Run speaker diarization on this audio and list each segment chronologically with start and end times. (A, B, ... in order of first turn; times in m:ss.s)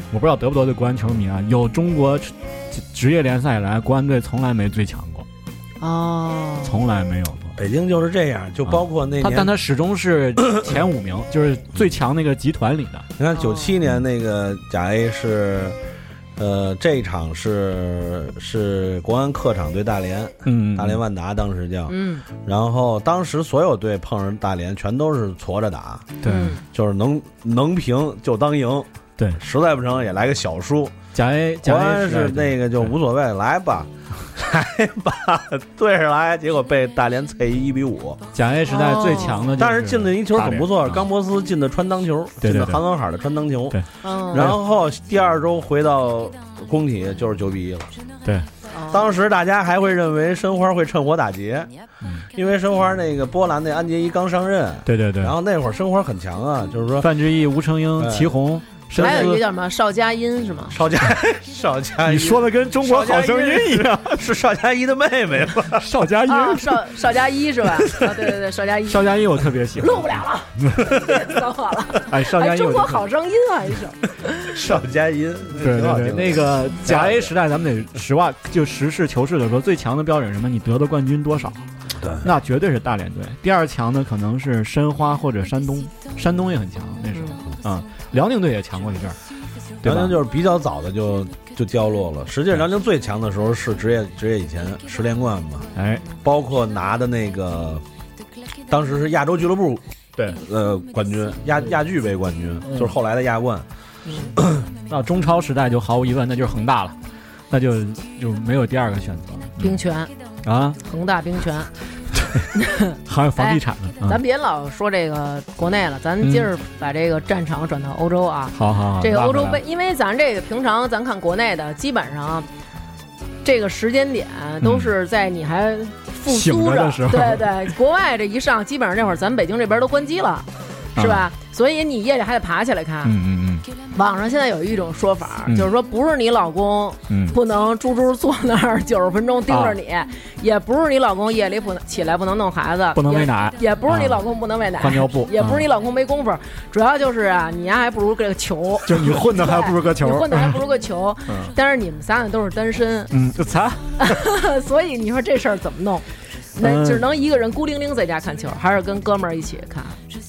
0:00.1-0:05.3 A
0:05.8-0:06.8 B
0:06.6-0:07.6 A
0:07.6-0:09.5 C
0:08.7-0:13.1 A
0:13.2-0:15.8 C
0:13.4-0:13.8 B
0:16.4-0:26.1 C
0:20.4-0:21.0 A
0:21.9-0:22.3 B
0:26.2-0:26.6 A
0:26.2-0:26.6 B
0:26.7-0:28.9 C
0:29.4-0:31.0 C
0:31.1-0:33.0 A
0:31.6-0:38.2 C
0:38.3-0:41.0 A
0:38.7-0:39.5 B
0:39.6-0:43.8 C
0:42.4-0:42.8 A
0:43.7-0:44.6 A
0:44.0-0:44.5 B
0:44.3-0:47.9 C
0:48.7-0:49.1 B
0:48.9-0:51.7 C
0:52.3-0:57.1 C
0:54.9-0:55.4 A
0:57.0-0:59.4 A
0:58.0-0:58.3 C
0:59.0-0:59.4 C
0:59.0-1:00.8 B
1:00.7-1:05.9 C
1:02.0-1:04.2 A
1:05.7-1:06.9 A
1:06.3-1:09.2 B
1:08.9-1:10.8 A
1:09.8-1:14.5 B
1:12.1-1:13.0 A
1:14.5-1:17.3 C
1:15.6-1:21.6 A
1:22.0-1:22.3 C
1:22.2-1:29.2 A
1:27.1-1:27.4 B
1:29.8-1:30.2 A
1:29.8-1:35.7 C
1:35.8-1:36.0 A
1:36.2-1:37.8 C
1:38.7-1:39.8 C
1:40.4-1:43.6 C
1:42.7-1:42.9 A
1:44.1-1:44.4 B
1:44.9-1:47.0 A
1:47.5-1:49.8 A
1:49.6-1:50.1 B
1:50.4-1:50.8 A
1:50.8-1:51.7 B
1:52.5-2:02.5 B
1:53.0-1:54.2 A
1:56.2-1:56.5 A
1:58.5-1:59.6 A
2:03.4-2:13.2 B
2:04.6-2:04.9 A
2:06.3-2:07.6 A
2:11.0-2:11.3 A
2:13.0-2:13.7 A
2:13.9-2:33.1 B
2:17.1-2:17.4 A
2:19.5-2:19.8 A
2:23.0-2:24.2 A
2:24.8-2:25.6 A
2:28.9-2:30.6 A
2:31.3-2:31.5 A
2:33.1-2:34.0 A
2:34.0-2:36.0 B
2:36.6-2:40.0 B
2:36.6-2:37.0 A